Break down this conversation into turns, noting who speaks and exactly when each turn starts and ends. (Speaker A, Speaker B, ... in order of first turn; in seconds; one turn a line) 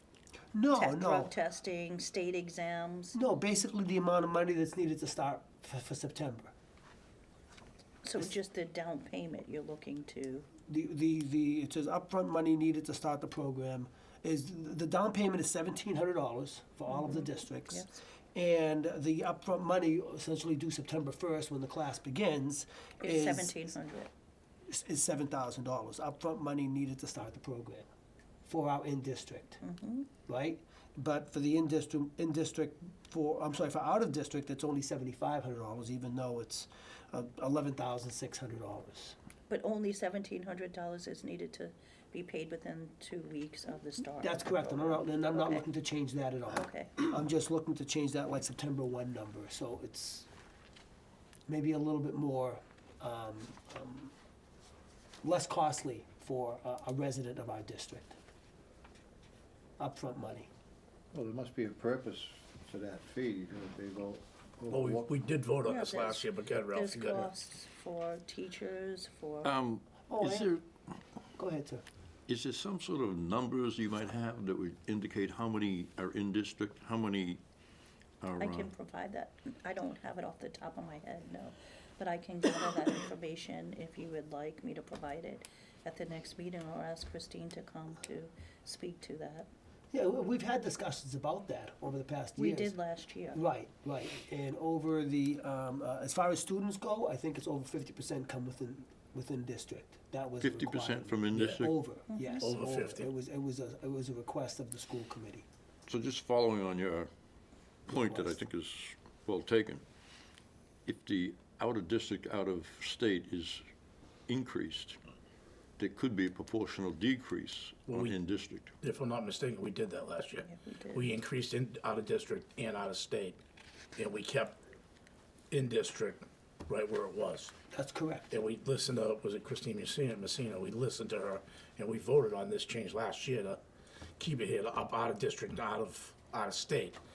Speaker A: 0.5-1.3
Speaker B: 0.7-3.1
Speaker A: 3.1-6.5
Speaker B: 8.0-10.5
Speaker A: 10.7-23.7
Speaker B: 16.9-18.0
Speaker B: 23.0-24.1
Speaker A: 24.7-27.9
Speaker A: 28.4-29.6
Speaker B: 29.6-30.1
Speaker A: 30.3-39.2
Speaker B: 39.5-45.6
Speaker A: 44.2-50.3
Speaker B: 46.5-47.0
Speaker A: 51.5-54.1
Speaker A: 55.2-58.2
Speaker A: 59.8-60.5
Speaker C: 61.1-65.1
Speaker D: 64.7-67.3
Speaker B: 65.6-69.5
Speaker E: 69.4-70.6
Speaker A: 70.1-70.5
Speaker A: 71.3-71.8
Speaker E: 72.3-77.4
Speaker E: 78.2-78.7
Speaker B: 78.4-89.5
Speaker A: 89.9-92.8
Speaker B: 92.4-93.4
Speaker A: 93.3-105.5
Speaker E: 100.4-101.7
Speaker D: 101.3-101.6
Speaker B: 102.1-102.5
Speaker D: 102.4-103.1
Speaker E: 105.9-107.1
Speaker E: 107.9-109.8
Speaker A: 107.9-108.3
Speaker E: 110.8-113.6
Speaker E: 114.3-115.0
Speaker E: 115.8-118.8
Speaker D: 117.9-118.2
Speaker D: 118.8-123.4
Speaker B: 120.4-121.1
Speaker D: 124.0-124.6
Speaker D: 125.5-127.5
Speaker A: 127.7-128.3
Speaker D: 128.3-133.6
Speaker D: 134.2-137.0